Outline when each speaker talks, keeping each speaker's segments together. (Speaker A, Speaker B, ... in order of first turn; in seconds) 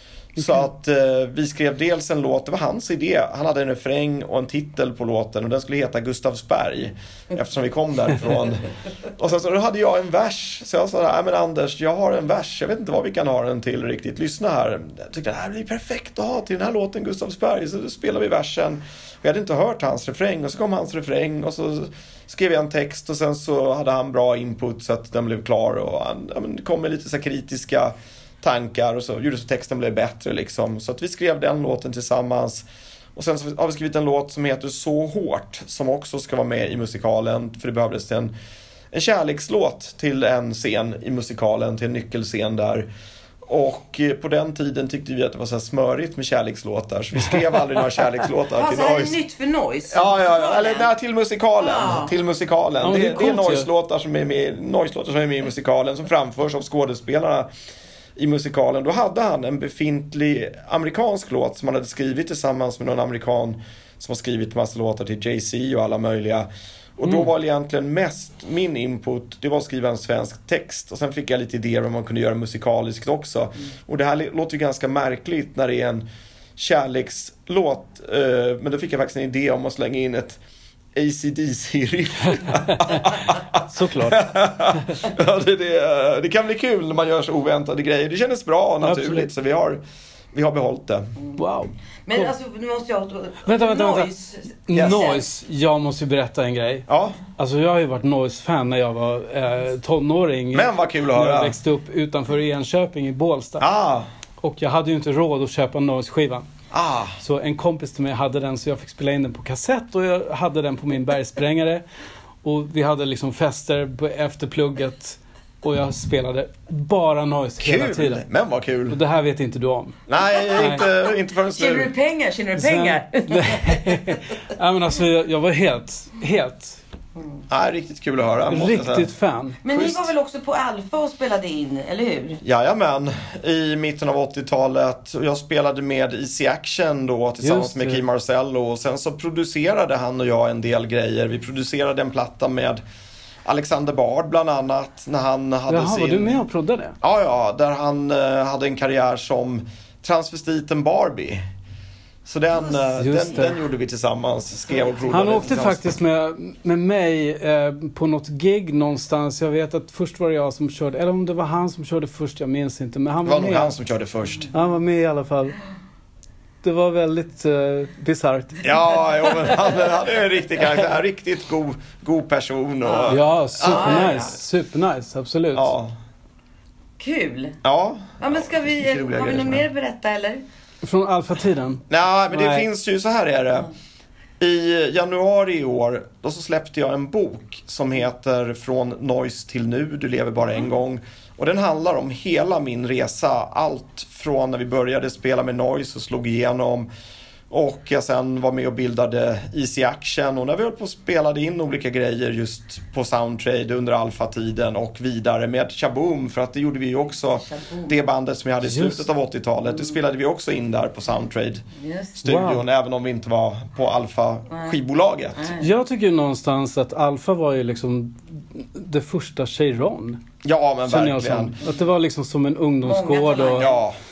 Speaker A: 0.4-32.6, 33.1-38.3, 38.9-42.9, 43.4-49.2, 49.9-57.5, 58.2-76.0, 76.6-80.4, 81.0-89.8, 90.3-91.1, 94.7-95.0, 96.9-97.2, 100.5-101.6, 103.6-104.1, 106.7-107.2, 117.6-119.0, 120.1-121.9, 127.5-129.1, 132.4-142.8, 143.4-146.4, 147.0-151.4, 152.3-155.8, 163.2-164.5, 168.6-174.2, 175.5-176.0, 177.6-179.7, 181.9-183.7, 184.4-196.9, 197.5-211.6, 212.2-215.5, 220.4-221.6, 223.6-224.0
Speaker B: 48.5-50.9, 51.6-52.1, 92.1-95.2, 121.5-124.2, 129.6-132.4, 152.5-153.5, 154.7-155.4, 172.8-174.4, 177.0-177.6, 178.2-180.4, 207.3-208.0, 211.8-212.2, 214.5-214.8, 215.3-215.7, 222.8-223.8
Speaker C: 52.8-53.7, 83.7-85.0, 88.8-89.3, 91.4-92.3, 93.5-94.1, 94.7-103.7, 104.4-106.5, 107.2-111.8, 112.4-118.3, 118.9-120.9, 122.5-126.8, 128.5-130.1, 137.4-138.0, 145.7-147.0, 153.0-153.6, 155.1-163.7, 164.5-165.6, 166.6-168.8, 173.1-175.7, 180.8-182.7, 208.6-209.1, 212.2-212.7, 215.6-220.2, 220.8-223.7